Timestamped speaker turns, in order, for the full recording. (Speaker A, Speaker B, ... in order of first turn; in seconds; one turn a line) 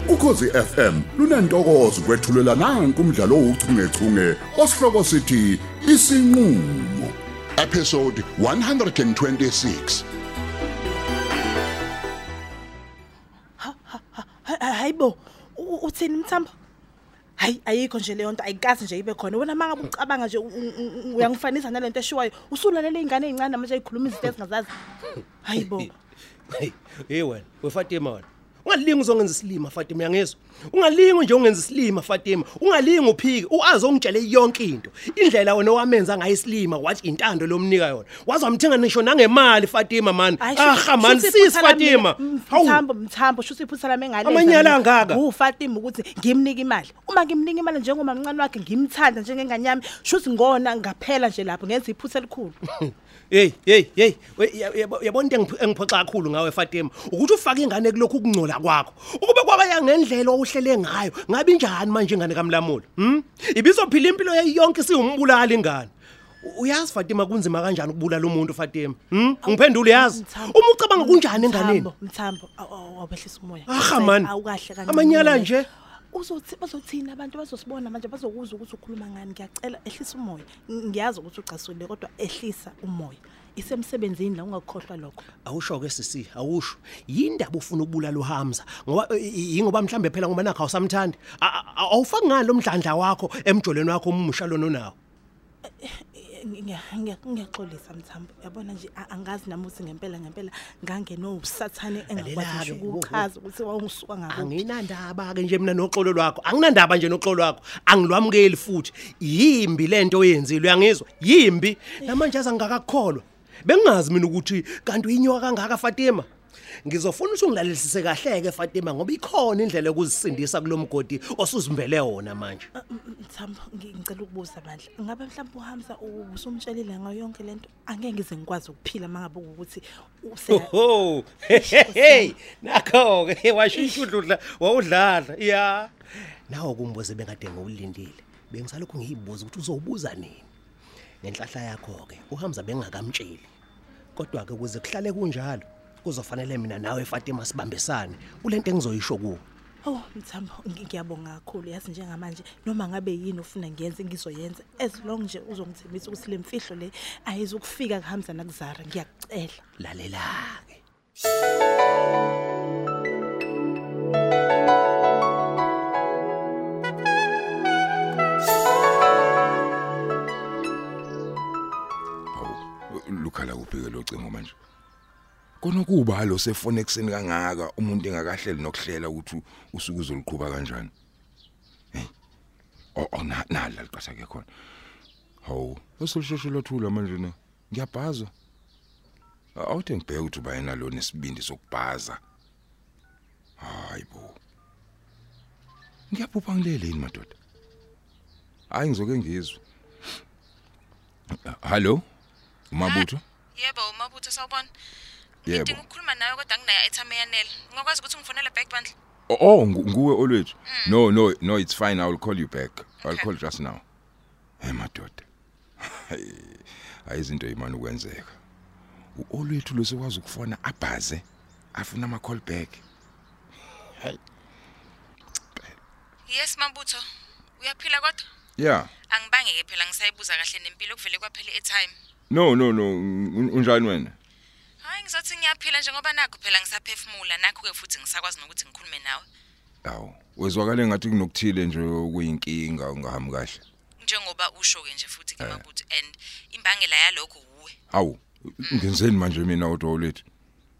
Speaker A: 2.5-3.1
Speaker A: 3.8-4.6
Speaker A: 5.8-6.5
Speaker A: 7.6-10.0
Speaker B: 13.6-16.5
Speaker B: 17.4-24.7
Speaker B: 25.4-25.9
Speaker C: 26.5-42.8
Speaker B: 40.4-52.6
Speaker C: 44.2-45.2
Speaker C: 52.7-65.9
Speaker C: 66.4-71.9
Speaker B: 69.4-75.5
Speaker C: 73.7-74.3
Speaker C: 74.9-75.7
Speaker B: 76.1-85.3
Speaker C: 85.4-95.0
Speaker B: 95.7-104.6
Speaker C: 102.1-103.3
Speaker C: 104.3-116.3
Speaker C: 116.8-122.7
Speaker B: 122.7-130.7
Speaker C: 130.5-135.9
Speaker B: 131.5-132.3
Speaker B: 133.7-134.1
Speaker C: 136.5-140.5
Speaker C: 141.2-143.5
Speaker C: 144.2-149.4
Speaker B: 149.8-159.6
Speaker C: 159.8-160.8
Speaker D: 172.3-174.6
Speaker D: 175.6-180.9
Speaker D: 182.9-184.5
Speaker D: 185.4-188.3
Speaker D: 189.6-192.2
Speaker D: 193.6-194.4
Speaker D: 196.1-197.3
Speaker D: 198.7-199.6
Speaker D: 201.4-202.0
Speaker D: 202.7-203.2
Speaker E: 202.8-204.7
Speaker E: 205.4-208.9
Speaker D: 205.5-205.8
Speaker D: 209.3-213.8
Speaker E: 210.7-211.0
Speaker E: 213.0-213.3
Speaker D: 214.6-215.2
Speaker D: 215.8-218.4
Speaker D: 219.2-222.8
Speaker E: 226.3-227.0
Speaker E: 227.6-228.2
Speaker D: 228.6-228.9
Speaker E: 229.1-231.9
Speaker D: 232.3-234.1
Speaker E: 234.8-239.2
Speaker D: 239.8-243.6
Speaker E: 244.0-247.8
Speaker D: 247.9-250.2
Speaker E: 248.6-248.9